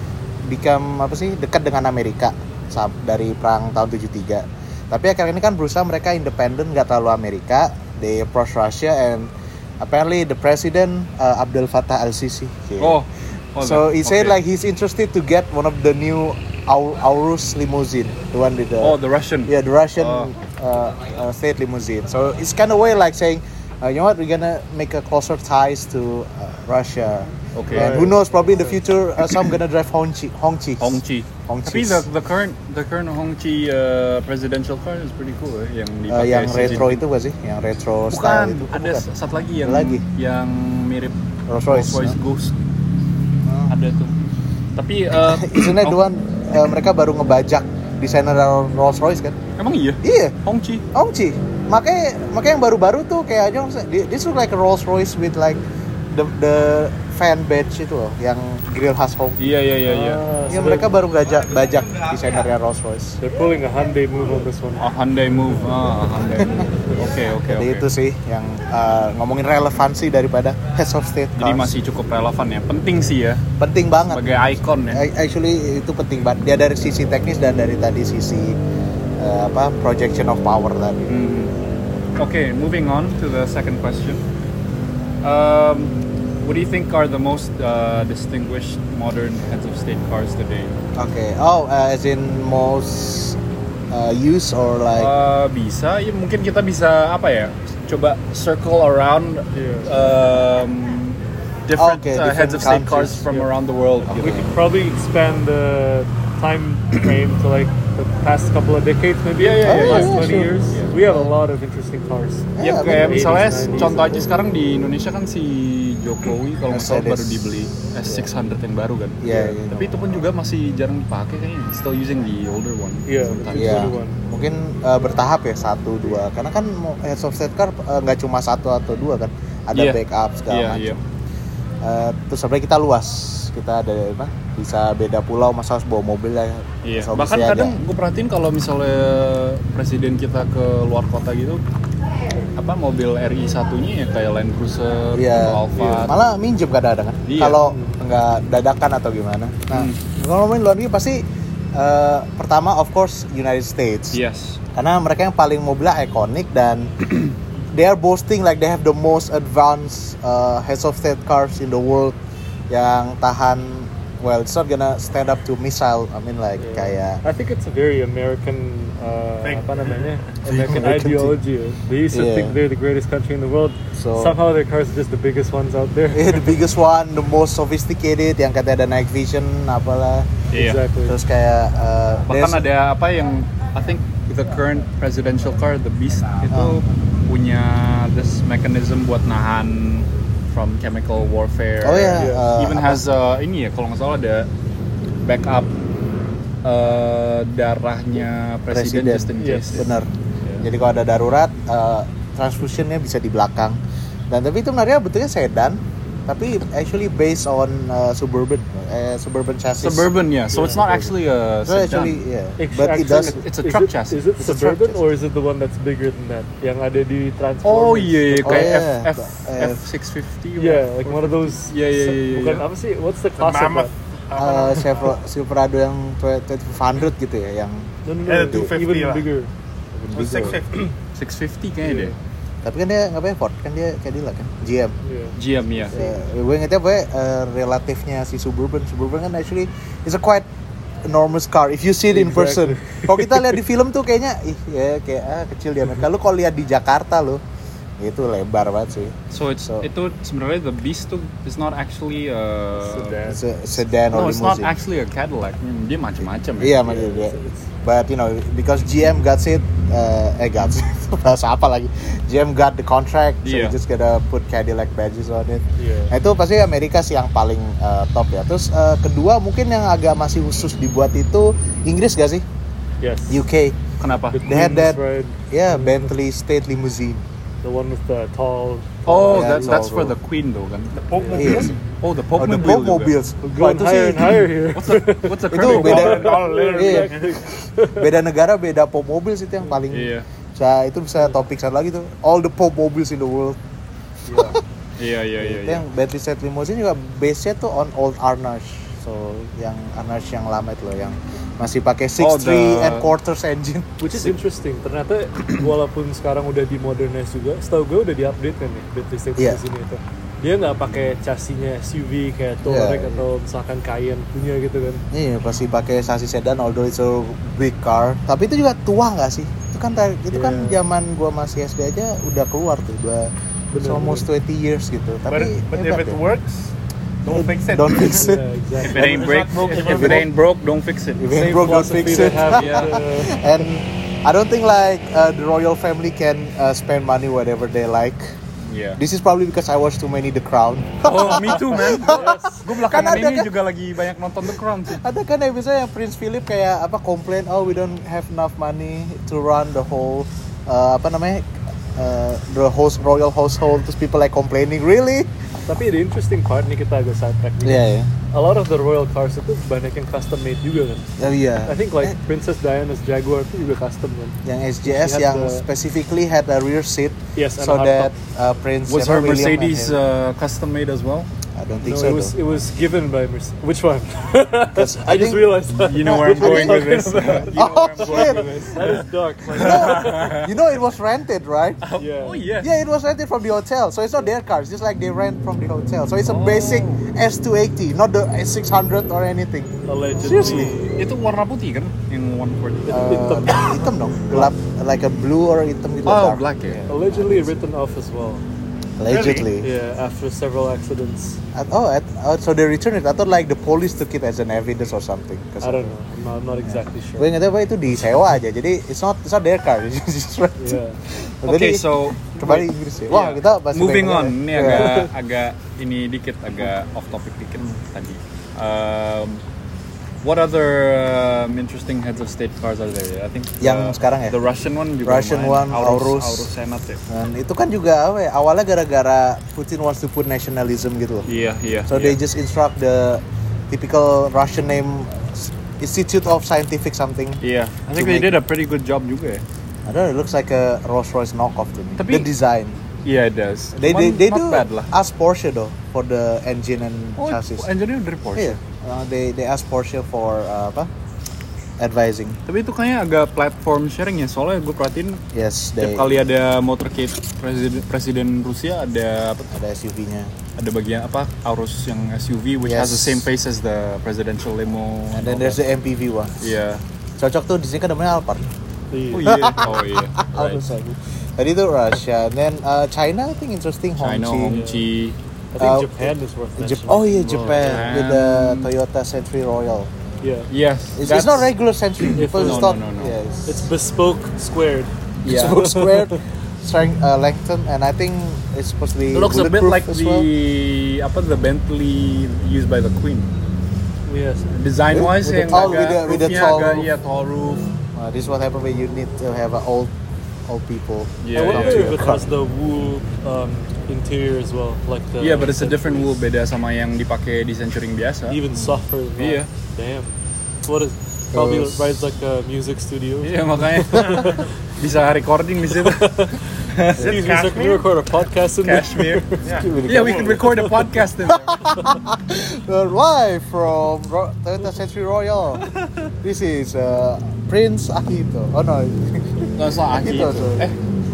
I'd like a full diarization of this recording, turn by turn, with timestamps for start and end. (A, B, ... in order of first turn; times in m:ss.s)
0:00.4-0:13.0 A
0:12.8-0:14.4 B
0:13.6-0:32.0 A
0:18.8-0:20.3 B
0:27.5-0:28.1 B
0:27.7-0:28.8 C
0:30.8-0:37.0 B
0:36.1-0:39.1 A
0:38.1-0:41.2 B
0:39.6-0:40.0 A
0:41.5-0:42.2 A
0:41.7-0:42.5 B
0:43.4-0:43.7 A
0:43.7-0:44.1 B
0:44.8-0:46.0 B
0:45.1-0:49.4 A
0:49.6-0:50.8 B
0:50.0-0:50.4 A
0:50.9-0:59.4 A
0:59.4-1:00.2 B
0:59.8-1:01.0 C
1:00.5-1:03.2 A
1:03.2-1:04.9 C
1:04.8-1:07.8 B
1:06.3-1:06.6 A
1:07.4-1:11.8 A
1:11.4-1:13.4 B
1:13.6-1:18.6 A
1:14.1-1:15.0 B
1:19.2-1:21.2 A
1:21.1-1:21.5 B
1:22.2-1:24.2 B
1:25.2-1:30.7 B
1:30.9-1:33.4 A
1:33.9-1:35.1 A
1:35.0-1:44.5 B
1:39.5-1:39.9 C
1:41.7-1:43.3 A
1:44.1-1:44.5 A
1:44.2-1:54.2 C
1:49.4-1:50.9 B
1:49.6-1:51.3 A
1:52.6-1:53.5 A
1:52.6-2:03.9 B
1:56.7-1:57.4 A
1:59.2-1:59.9 A
2:03.0-2:04.2 C
2:03.5-2:10.9 A
2:09.7-2:11.0 B
2:11.8-2:17.8 A
2:16.8-2:21.6 B
2:22.6-2:26.2 B
2:25.1-2:31.2 A
2:25.8-2:26.1 C
2:27.3-2:27.6 B
2:27.6-2:28.0 C
2:29.7-2:30.0 B
2:31.7-2:34.2 A
2:34.1-2:34.6 B
2:34.7-2:42.2 A
2:42.7-2:47.2 A
2:46.6-2:56.6 C
2:49.4-2:50.1 D
2:50.4-2:51.4 A
2:52.1-2:52.6 A
2:53.9-2:54.4 A
2:56.1-3:00.4 A
3:00.5-3:00.8 B
3:00.5-3:01.2 C
3:01.0-3:02.7 A
3:02.3-3:14.5 B
3:06.5-3:06.8 A
3:11.8-3:13.0 A
3:12.2-3:12.5 C
3:15.2-3:15.7 B
3:16.6-3:19.9 B
3:18.7-3:20.1 A
3:19.4-3:19.7 C
3:20.6-3:23.8 A
3:24.3-3:31.1 A
3:29.8-3:32.2 B
3:30.5-3:30.8 C
3:31.6-3:33.4 A
3:32.6-3:38.8 C
3:33.0-3:34.2 B
3:34.4-3:35.0 A
3:37.6-3:42.6 B
3:38.4-3:39.8 A
3:40.6-3:43.9 C
3:43.4-3:45.1 D
3:44.4-3:47.9 A
3:48.0-3:49.5 C
3:48.2-3:49.3 D
3:48.5-3:48.7 A
3:49.9-3:50.6 A
3:50.1-3:50.9 D
3:51.2-3:52.1 B
3:51.8-3:52.2 C
3:52.6-3:54.9 A
3:55.0-3:55.4 C
3:55.3-3:55.9 B
3:55.9-4:00.5 A
4:01.1-4:07.4 A
4:02.1-4:03.4 C
4:08.0-4:09.9 A
4:09.3-4:13.2 B
4:12.8-4:13.4 C
4:13.3-4:14.7 A
4:14.0-4:17.0 B
4:16.6-4:32.4 A
4:16.9-4:17.6 C
4:23.4-4:23.8 B
4:25.8-4:26.1 C
4:33.0-4:33.4 C
4:33.3-4:33.8 A
4:34.0-4:34.4 B
4:34.3-4:36.1 C
4:34.4-4:37.2 A
4:37.6-4:39.8 C
4:39.1-4:41.0 B
4:39.3-4:40.2 A
4:40.9-4:41.7 D
4:41.2-4:41.6 C
4:41.3-4:41.8 A
4:41.8-4:43.1 B
4:42.4-4:44.5 A
4:43.4-4:48.0 C
4:44.7-4:46.3 B
4:45.5-4:47.1 A
4:45.7-4:47.4 D
4:47.9-4:53.6 A
4:49.9-4:50.2 B
4:54.3-4:54.6 C
4:54.3-4:54.6 A
4:54.3-4:55.8 B
4:55.4-5:04.3 A
5:02.2-5:03.1 B
5:04.0-5:15.0 C
5:12.6-5:13.2 A
5:15.1-5:26.2 A
5:20.3-5:20.8 C
5:23.7-5:24.3 C
5:25.3-5:26.7 D
5:27.2-5:30.2 D
5:27.3-5:28.4 A
5:28.0-5:29.3 C
5:28.8-5:33.0 B
5:29.8-5:30.3 A
5:31.2-5:38.4 A
5:31.4-5:33.4 C
5:38.6-5:39.0 B
5:39.0-5:43.5 A
5:41.0-5:45.0 B
5:42.0-5:42.6 C
5:44.9-5:55.3 A
5:55.7-6:05.6 C
5:57.6-5:58.1 A
6:01.2-6:02.2 A
6:04.4-6:10.0 A
6:07.4-6:08.1 C
6:08.9-6:11.3 B
6:11.6-6:12.3 A
6:11.8-6:20.4 C
6:14.7-6:15.5 A
6:15.8-6:20.5 B
6:16.0-6:18.5 A
6:19.5-6:21.8 A
6:21.8-6:22.7 B
6:22.0-6:22.4 C
6:22.6-6:30.8 A
6:26.2-6:27.0 B
6:29.9-6:31.0 C
6:30.2-6:33.1 B
6:32.9-6:34.5 C
6:32.9-6:37.5 A
6:36.0-6:36.8 B
6:36.9-6:38.4 C
6:39.0-6:39.7 A
6:39.0-6:39.5 D
6:39.6-6:41.4 C
6:41.5-6:46.0 A
6:45.6-6:47.4 C
6:46.6-6:55.0 A
6:50.6-6:51.0 C
6:51.4-6:59.4 B
6:54.6-6:55.1 C
7:00.2-7:07.0 B
7:03.6-7:04.4 A
7:05.0-7:06.5 A
7:07.1-7:11.3 A
7:11.2-7:12.2 B
7:11.9-7:18.3 A
7:17.4-7:19.4 B
7:19.9-7:22.8 A
7:22.0-7:22.3 B
7:23.0-7:24.9 B
7:23.8-7:27.7 A
7:27.2-7:28.6 B
7:28.4-7:30.9 A
7:31.8-7:32.4 A
7:32.5-7:35.2 B
7:35.3-7:36.1 A
7:35.8-7:39.5 B
7:39.5-7:40.3 A
7:40.6-7:45.6 B
7:42.6-7:43.2 A
7:45.1-7:46.5 A
7:46.4-7:46.8 B
7:47.2-7:48.4 A
7:48.9-7:49.7 C
7:49.1-7:50.6 B
7:49.2-7:54.6 A
7:54.0-7:55.2 B
7:54.5-7:54.9 C
7:55.5-7:57.9 C
7:55.6-7:59.9 A
7:57.5-7:58.7 B
8:00.2-8:00.5 C
8:00.5-8:03.1 B
8:01.0-8:03.7 A
8:02.2-8:02.8 C
8:03.4-8:06.2 C
8:05.2-8:05.6 B
8:05.2-8:10.3 A
8:09.1-8:13.3 B
8:14.0-8:14.5 C
8:14.5-8:17.7 B
8:14.9-8:16.9 A
8:17.9-8:19.9 A
8:20.4-8:22.2 A
8:21.2-8:22.0 B
8:21.3-8:26.1 C
8:25.2-8:28.4 B
8:28.3-8:34.5 C
8:28.5-8:28.8 A
8:29.2-8:29.5 B
8:31.3-8:31.9 A
8:33.2-8:37.2 B
8:35.8-8:36.4 C
8:37.0-8:37.9 D
8:37.0-8:39.5 C
8:38.6-8:39.2 B
8:39.4-8:40.3 D
8:39.5-8:40.4 A
8:39.8-8:41.7 B
8:40.4-8:40.7 C
8:41.2-8:45.7 A
8:46.2-8:50.7 A
8:49.6-8:50.8 B